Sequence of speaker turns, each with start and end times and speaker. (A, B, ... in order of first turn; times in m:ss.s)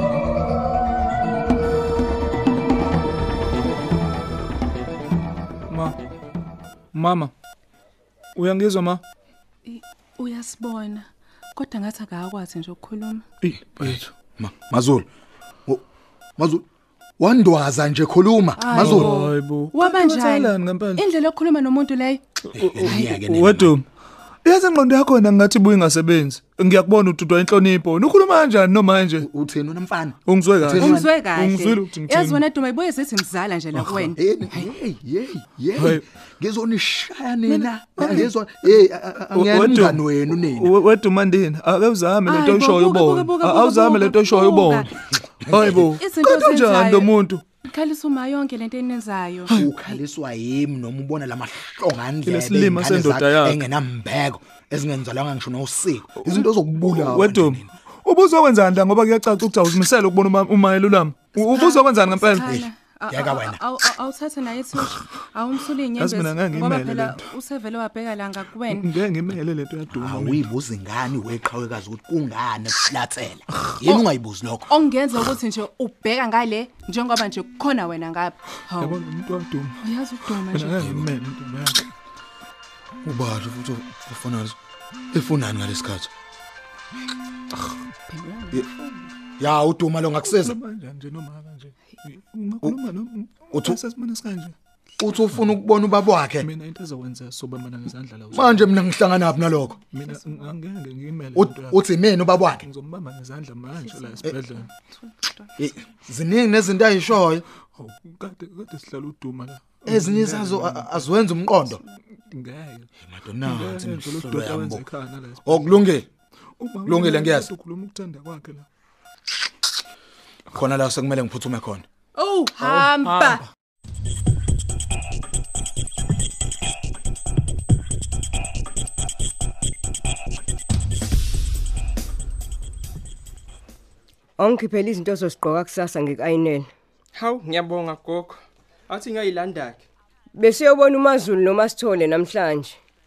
0:05.7-0:06.0 A
0:06.9-0:07.3 A
0:08.4-0:09.0 A
0:09.6-0:13.2 B
0:13.4-0:14.1 A
0:13.8-0:15.1 C
0:16.4-0:16.6 C
0:17.2-0:19.1 C
0:18.6-0:22.2 B
0:18.8-0:21.0 A
0:22.5-0:23.8 C
0:22.8-0:23.8 A
0:22.8-0:23.1 B
0:24.4-0:29.3 A
0:29.2-0:31.1 C
0:30.3-0:32.4 A
0:30.7-0:34.7 B
0:34.2-0:40.8 C
0:35.8-0:36.0 A
0:37.5-0:38.3 A
0:39.3-0:44.9 A
0:42.3-0:44.9 B
0:45.5-0:46.0 C
0:45.5-0:47.4 A
0:46.0-0:49.7 B
0:49.5-0:57.7 C
0:52.2-0:53.6 A
0:56.2-1:02.5 A
1:01.4-1:08.9 B
1:02.4-1:03.6 C
1:06.0-1:07.2 A
1:08.7-1:10.5 A
1:09.9-1:14.7 C
1:14.7-1:19.0 B
1:18.8-1:19.8 A
1:19.8-1:21.0 B
1:20.5-1:21.9 A
1:23.0-1:24.5 C
1:25.1-1:26.1 C
1:28.1-1:29.1 B
1:29.4-1:30.6 C
1:30.3-1:34.5 A
1:33.5-1:33.8 C
1:35.0-1:36.5 C
1:36.4-1:38.8 A
1:38.3-1:39.8 C
1:39.8-1:41.8 A
1:40.1-1:40.4 B
1:41.4-1:42.6 C
1:42.6-1:44.7 A
1:43.8-1:45.5 B
1:45.6-1:47.4 C
1:47.8-1:51.1 A
1:49.9-1:51.8 C
1:52.3-1:52.9 A
1:53.0-1:54.8 C
1:53.4-1:55.9 A
1:55.4-1:56.1 C
1:56.6-1:58.7 A
1:56.8-1:57.5 C
2:00.5-2:01.8 C
2:02.2-2:03.4 B
2:02.6-2:03.4 A
2:14.4-2:16.7 D
2:17.1-2:19.8 E
2:20.4-2:22.8 D